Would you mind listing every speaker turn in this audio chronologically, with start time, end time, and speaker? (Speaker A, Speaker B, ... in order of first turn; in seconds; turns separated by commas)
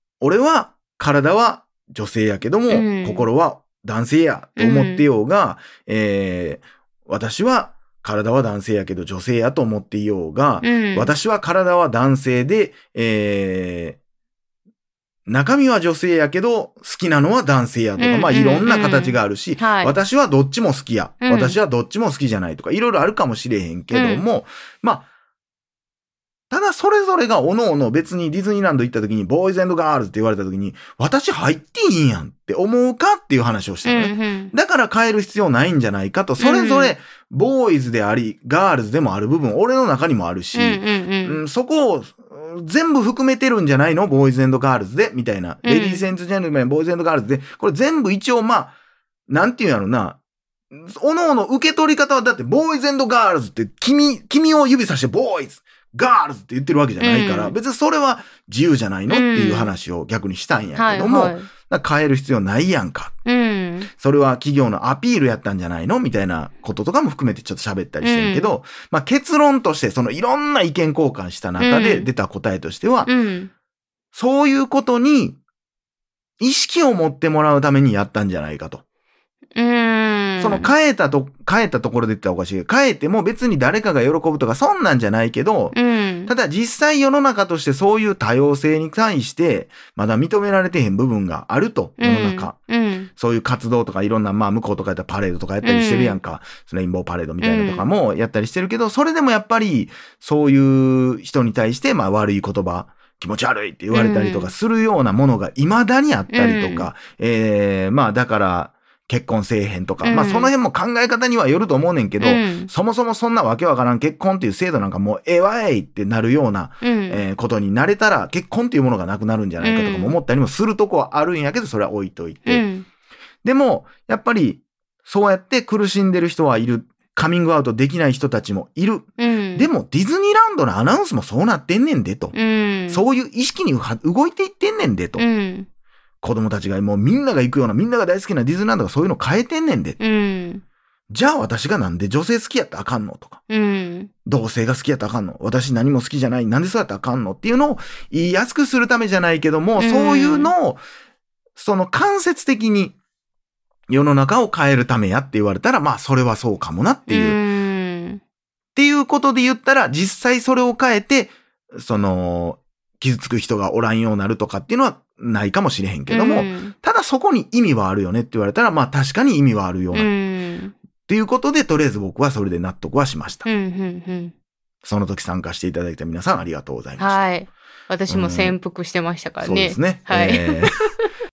Speaker A: 0.2-14.0, Speaker B: 2.7-3.3, Speaker B: 4.6-5.0, Speaker B: 10.6-11.1, Speaker A: 15.3-25.1, Speaker B: 18.0-19.9, Speaker B: 21.2-21.6, Speaker B: 23.9-24.2, Speaker A: 26.5-48.8, Speaker B: 33.9-34.5, Speaker B: 36.4-37.0, Speaker B: 40.5-41.4, Speaker B: 45.6-46.0, Speaker A: 49.3-50.2, Speaker A: 50.7-63.1, Speaker B: 57.0-57.5, Speaker B: 59.1-59.7, Speaker B: 60.8-61.5, Speaker B: 63.3-63.9, Speaker A: 63.9-73.1, Speaker B: 68.0-68.5, Speaker B: 71.6-72.1, Speaker B: 73.1-73.5, Speaker A: 74.1-75.4, Speaker A: 76.4-78.8, Speaker B: 79.6-80.7, Speaker A: 80.4-92.5, Speaker B: 85.7-86.3, Speaker B: 92.0-93.1, Speaker A: 93.2-122.6, Speaker B: 95.6-96.2, Speaker B: 97.4-97.9, Speaker B: 103.9-104.5, Speaker B: 106.3-106.9, Speaker B: 110.0-110.5, Speaker B: 112.2-112.7, Speaker B: 116.8-117.2, Speaker B: 119.6-120.2, Speaker B: 122.5-122.9, Speaker A: 123.4-132.3, Speaker B: 129.2-129.7, Speaker B: 132.3-133.1, Speaker A: 132.9-135.2, Speaker B: 135.2-135.7, Speaker A: 136.2-140.0, Speaker B: 140.0-140.6, Speaker A: 141.1-143.4, Speaker B: 143.5-144.1, Speaker A: 144.2-150.8, Speaker B: 149.8-150.5, Speaker A: 151.6-153.0, Speaker A: 153.9-157.4, Speaker B: 157.1-158.2, Speaker A: 158.8-170.1, Speaker B: 166.1-166.7, Speaker B: 169.9-170.7, Speaker A: 171.1-173.5, Speaker B: 173.4-174.3, Speaker A: 174.8-177.3, Speaker B: 177.0-180.6, Speaker A: 178.1-178.6, Speaker A: 179.4-180.8